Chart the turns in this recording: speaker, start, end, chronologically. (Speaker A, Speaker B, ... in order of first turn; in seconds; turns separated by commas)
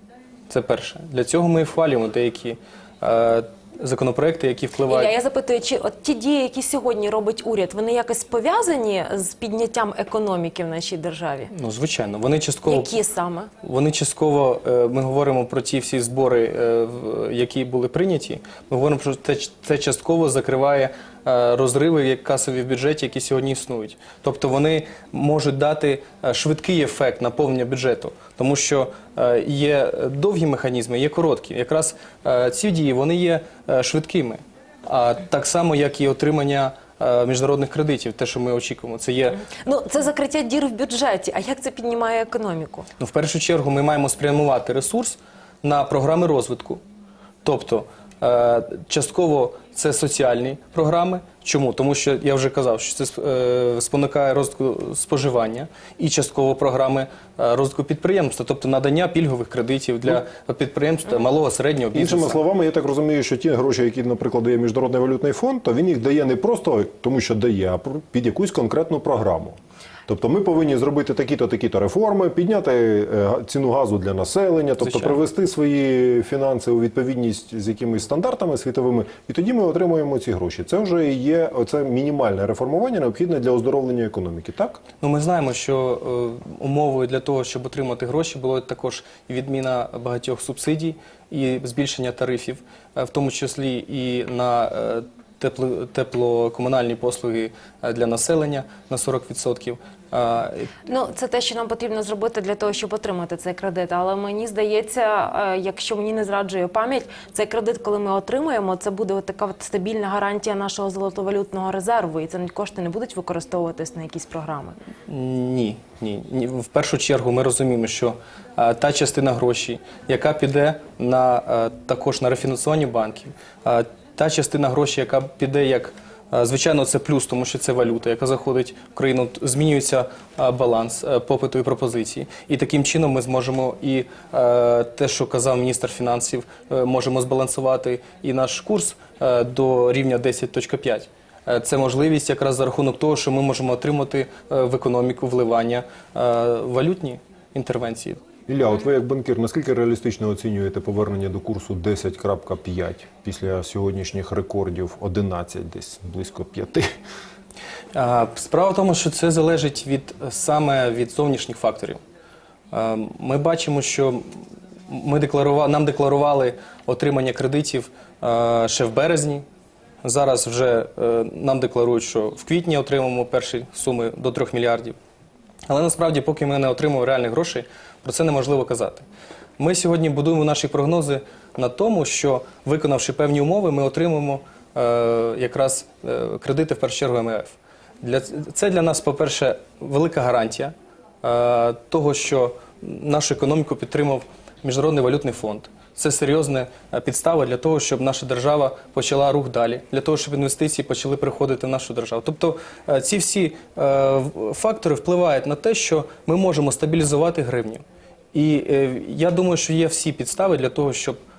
Speaker A: 0.5-5.1, Speaker B: 4.8-11.5, Speaker A: 11.5-12.9, Speaker B: 12.6-13.5, Speaker A: 13.6-39.5, Speaker B: 39.4-42.9, Speaker A: 43.0-46.8, Speaker A: 47.4-62.4, Speaker C: 61.9-69.6, Speaker C: 70.1-84.8, Speaker A: 74.8-75.2, Speaker A: 85.0-100.7, Speaker B: 100.9-114.8, Speaker A: 115.1-148.2, Speaker C: 148.5-156.9, Speaker A: 157.9-162.0, Speaker A: 162.7-169.4, Speaker A: 170.0-174.9, Speaker A: 175.7-179.1, Speaker A: 179.6-211.2